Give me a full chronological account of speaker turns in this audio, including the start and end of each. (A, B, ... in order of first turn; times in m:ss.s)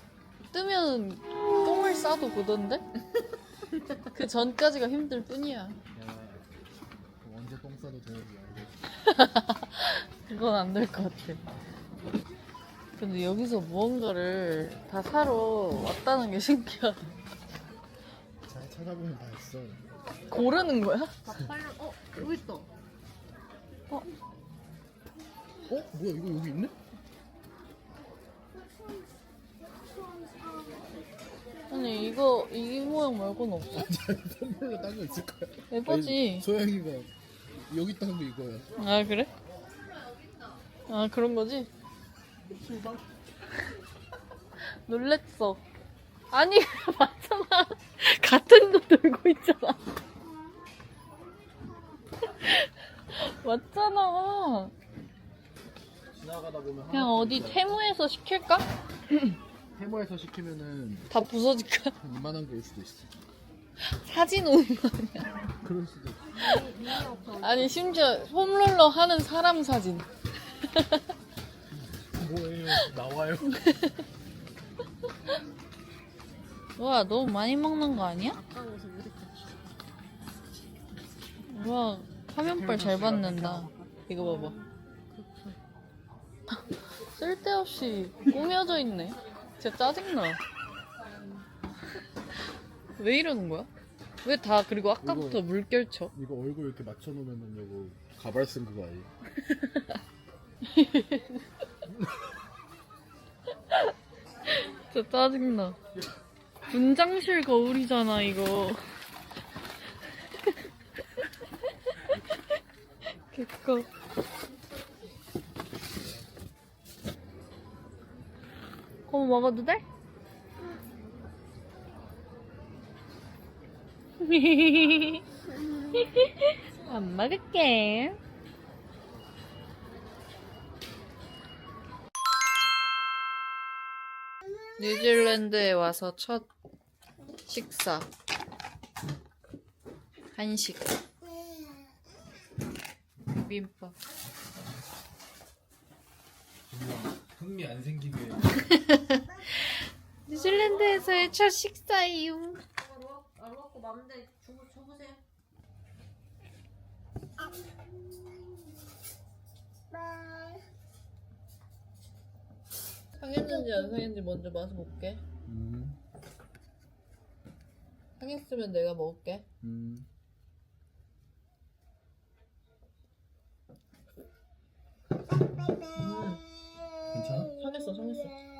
0:00.5-0:02.8 A
0:04.1-0:05.8 A
0:05.9-0:06.5 B
0:07.2-0:08.8 B
0:09.0-0:11.4 A
0:13.0-0:17.1 A
0:18.5-0:19.8 B
0:20.3-0:21.2 A
0:21.2-0:22.7 C
0:25.7-0:26.7 B
0:31.7-0:33.9 A
0:33.7-0:37.1 B
0:35.7-0:36.5 A
0:37.7-0:38.9 B
0:38.8-0:39.3 A
0:40.9-0:41.7 A
0:42.5-0:43.0 B
0:44.8-0:45.6 A
0:46.3-0:49.8 A
0:52.3-0:54.7 A
0:56.1-0:57.8 B
0:56.9-0:59.3 A
0:59.7-1:01.1 B
1:01.1-1:02.0 A
1:02.0-1:03.1 B
1:03.8-1:05.4 A
1:05.6-1:06.3 B
1:06.3-1:07.9 C
1:07.4-1:10.1 A
1:10.7-1:11.0 A
1:11.7-1:13.6 B
1:16.8-1:18.4 A
1:18.2-1:19.6 C
1:21.5-1:24.5 A
1:22.4-1:25.6 C
1:27.1-1:30.4 A
1:33.0-1:33.7 A
1:34.2-1:36.1 A
1:35.0-1:35.5 B
1:36.1-1:39.1 B
1:39.4-1:39.9 A
1:40.6-1:41.4 A
1:44.5-1:45.8 A
1:46.7-1:48.8 A
1:53.3-1:53.9 A
1:59.1-1:59.8 A
2:04.2-2:05.2 A
2:05.9-2:08.2 A
2:14.8-2:16.5 A
2:17.4-2:18.1 A
2:20.3-2:21.0 A
2:23.3-2:23.9 A
2:26.7-2:28.6 B
2:28.7-2:29.2 A
2:30.3-2:32.6 A
2:30.3-2:31.4 C
2:32.8-2:35.2 C
2:43.1-2:45.2 A
2:43.6-2:44.0 C
2:45.5-2:46.0 B
2:48.2-2:49.4 A
2:49.6-2:50.1 B
2:55.9-2:56.4 A
2:57.1-2:57.5 B
2:57.5-2:58.4 A